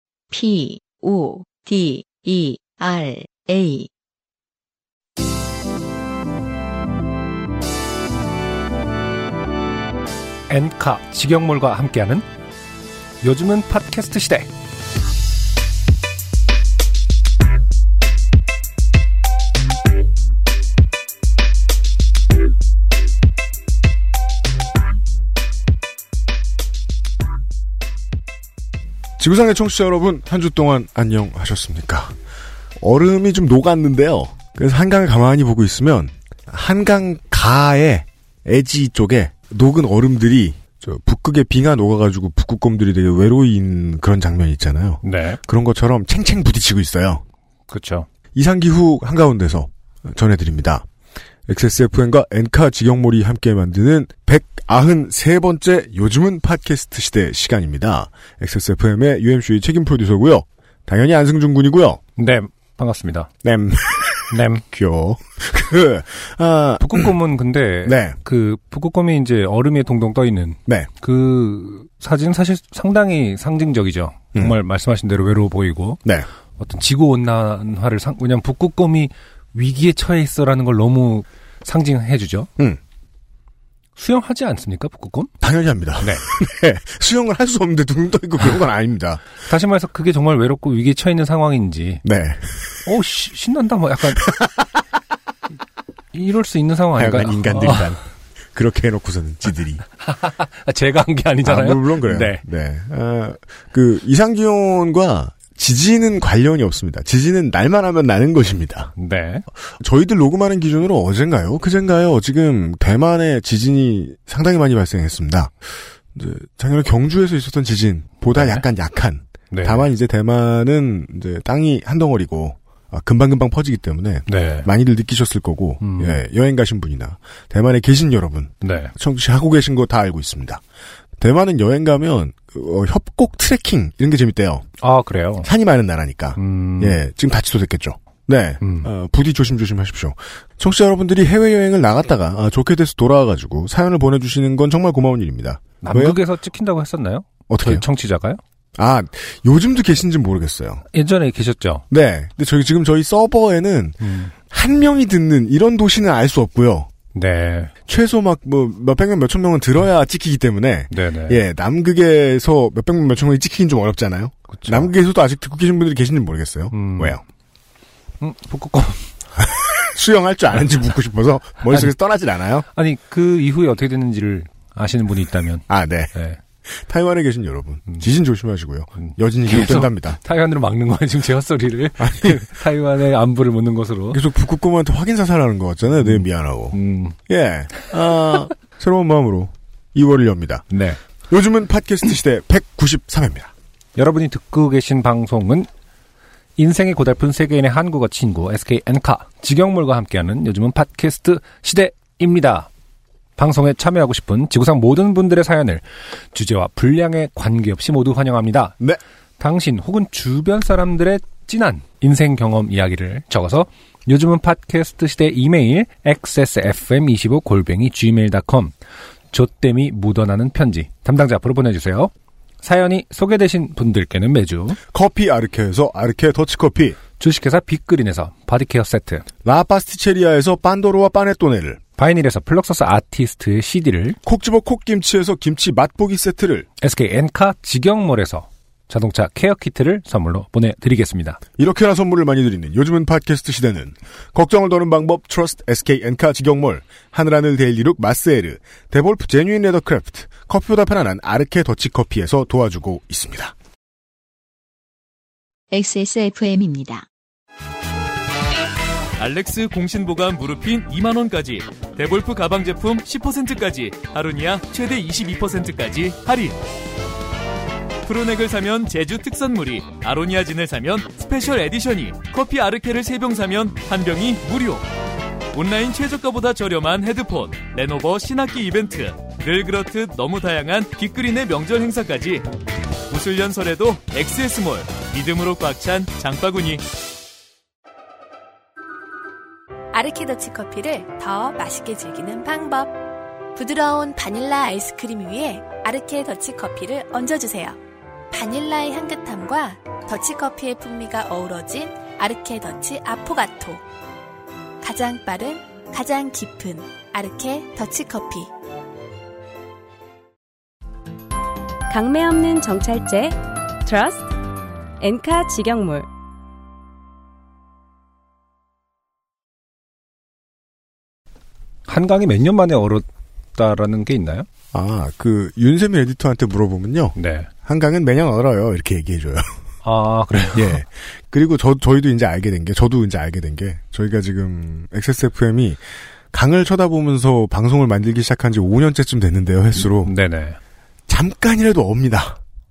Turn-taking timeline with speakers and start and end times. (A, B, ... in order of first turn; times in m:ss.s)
0:00.3-0:03.9 A
0:10.5-0:12.2 B
0:13.2-0:14.5 B
0:29.2-0:32.1 C
0:32.8-0:47.2 C
0:45.0-0:45.4 B
0:47.7-0:48.0 B
0:48.3-0:50.8 C
0:51.5-1:02.0 C
1:02.2-1:03.3 B
1:03.4-1:07.1 C
1:04.3-1:04.6 B
1:06.8-1:16.0 B
1:07.8-1:08.2 C
1:16.6-1:22.5 B
1:24.0-1:25.3 B
1:25.4-1:29.2 C
1:26.0-1:26.2 B
1:29.4-1:32.0 B
1:32.0-1:32.8 C
1:32.8-1:34.3 B
1:34.2-1:34.7 C
1:36.1-1:37.9 B
1:37.0-1:38.0 C
1:38.5-1:39.8 C
1:40.0-1:42.4 B
1:41.4-1:48.9 C
1:49.0-1:49.4 B
1:49.8-2:10.6 C
1:58.3-1:58.6 B
1:59.5-1:59.9 B
2:04.3-2:04.7 B
2:05.8-2:06.2 B
2:08.6-2:08.9 B
2:11.2-2:14.7 C
2:14.8-2:15.5 B
2:15.4-2:26.2 C
2:16.4-2:17.0 B
2:18.6-2:18.9 B
2:25.8-2:28.4 B
2:27.5-2:27.8 C
2:28.8-2:30.8 C
2:30.9-2:31.8 B
2:31.9-2:36.9 C
2:34.0-2:34.3 B
2:37.1-2:37.7 B
2:37.9-2:47.2 C
2:40.9-2:41.4 B
2:44.5-2:44.9 B
2:46.7-2:47.2 B
2:48.2-2:49.1 B
2:49.4-2:52.6 C
2:51.7-2:51.9 B
2:52.7-2:56.4 B
2:55.7-2:56.1 C
2:56.7-3:00.2 C
2:59.0-3:04.2 B
3:02.0-3:02.5 C
3:04.1-3:10.6 C
3:06.0-3:07.2 B
3:10.7-3:11.0 B
3:11.3-3:13.5 C
3:14.0-3:15.7 B
3:16.6-3:22.7 B
3:23.4-3:28.8 B
3:29.4-3:38.7 B
3:39.3-3:44.8 B
3:44.9-3:47.0 C
3:47.2-3:49.2 B
3:49.4-3:51.8 C
3:52.0-3:54.2 B
3:54.2-3:56.7 C
3:56.8-4:01.4 B
4:01.6-4:13.5 C
4:15.7-4:17.0 A
4:19.2-4:26.6 D
4:28.0-4:34.8 D
4:35.5-4:42.5 D
4:43.1-4:46.8 D
4:49.9-4:52.9 E
4:53.5-4:57.8 E
4:58.3-5:03.8 E
5:04.8-5:08.5 E
5:11.9-5:14.3 F
5:15.0-5:16.1 F
5:21.9-5:24.4 B
5:24.7-5:29.5 C
5:27.2-5:27.5 B
5:29.8-5:30.8 B
5:30.5-5:40.1 C
5:40.0-5:40.6 B
5:41.1-5:42.4 C